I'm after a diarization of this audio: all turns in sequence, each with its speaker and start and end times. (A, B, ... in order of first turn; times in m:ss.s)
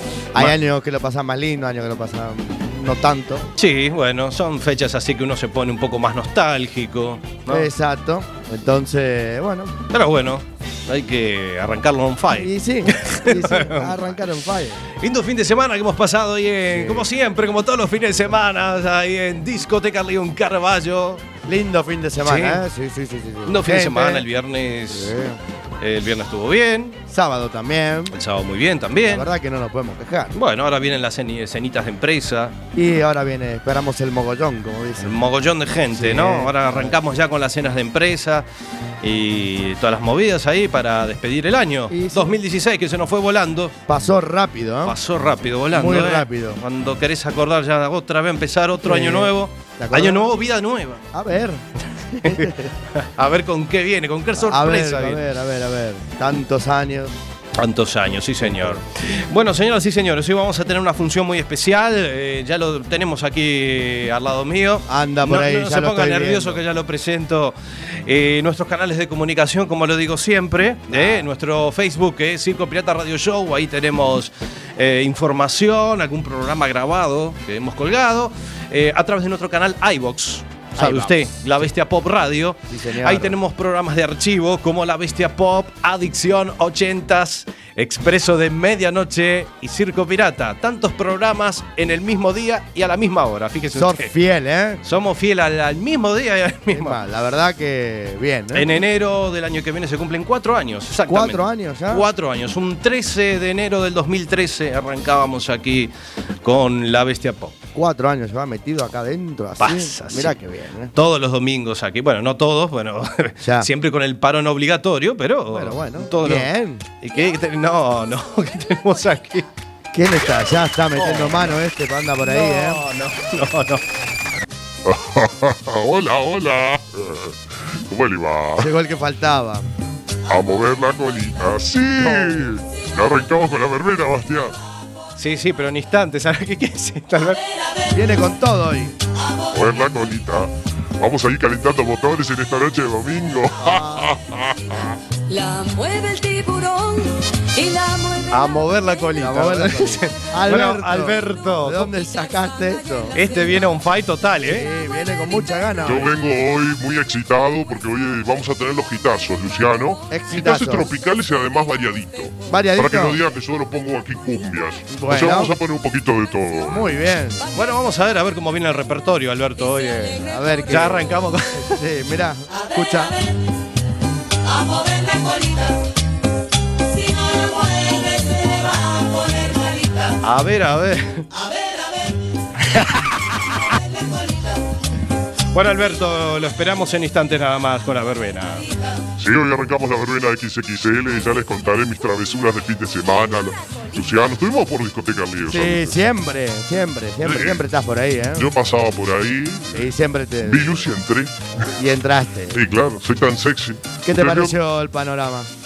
0:00.3-0:03.5 A
0:03.6-0:07.7 B
0:07.5-0:09.8 A
0:09.9-0:14.2 B
0:12.3-0:14.8 A
0:15.0-0:21.2 B
0:16.7-0:17.1 A
0:21.5-0:24.3 A
0:22.2-0:22.6 B
0:23.5-0:25.1 B
0:24.9-0:25.4 A
0:25.8-0:27.0 B
0:27.1-0:28.2 A
0:28.1-0:29.3 B
0:29.0-0:30.4 A
0:30.3-0:32.6 B
0:32.7-0:35.3 A
0:35.0-0:38.5 B
0:35.9-0:37.0 A
0:39.0-0:43.8 B
0:41.9-0:42.4 A
0:43.9-0:45.0 A
0:44.8-0:51.0 B
0:45.7-0:46.6 A
0:48.8-0:50.3 A
0:51.1-0:52.7 A
0:52.2-0:55.2 B
0:54.4-0:57.2 A
0:57.6-1:34.1 B
0:58.4-0:58.8 A
1:04.9-1:06.6 A
1:10.9-1:11.3 A
1:20.8-1:21.5 A
1:22.7-1:23.4 A
1:33.8-1:34.8 A
1:34.8-1:37.0 B
1:36.7-1:38.7 A
1:38.5-1:45.9 B
1:41.1-1:42.1 A
1:46.4-1:47.6 B
1:47.7-1:50.9 A
1:49.6-1:50.3 B
1:50.9-1:59.5 B
1:53.4-1:53.7 A
1:55.5-1:56.8 A
1:59.9-2:02.8 A
2:01.0-2:01.4 B
2:02.2-2:03.8 B
2:04.9-2:08.7 C
2:08.6-2:09.7 A
2:10.3-2:14.6 C
2:12.0-2:12.5 A
2:15.2-2:17.4 B
2:17.9-2:19.0 A
2:19.5-2:24.9 C
2:23.6-2:24.1 A
2:25.3-2:28.5 D
2:28.3-2:31.9 B
2:29.2-2:33.2 A
2:33.1-2:34.7 B
2:34.4-2:36.1 A
2:35.8-2:46.8 C
2:40.1-2:40.9 A
2:42.5-2:43.2 A
2:44.9-2:45.5 A
2:46.7-2:47.5 A
2:47.5-2:51.7 B
2:50.2-2:53.2 A
3:00.2-3:01.3 B
3:05.5-3:08.7 B
3:09.2-3:16.0 C
3:15.5-3:18.5 A
3:17.2-3:17.6 C
3:18.4-3:19.9 C
3:19.7-3:20.8 A
3:20.4-3:21.4 C
3:21.8-3:22.6 A
3:22.5-3:24.6 C
3:24.0-3:25.5 A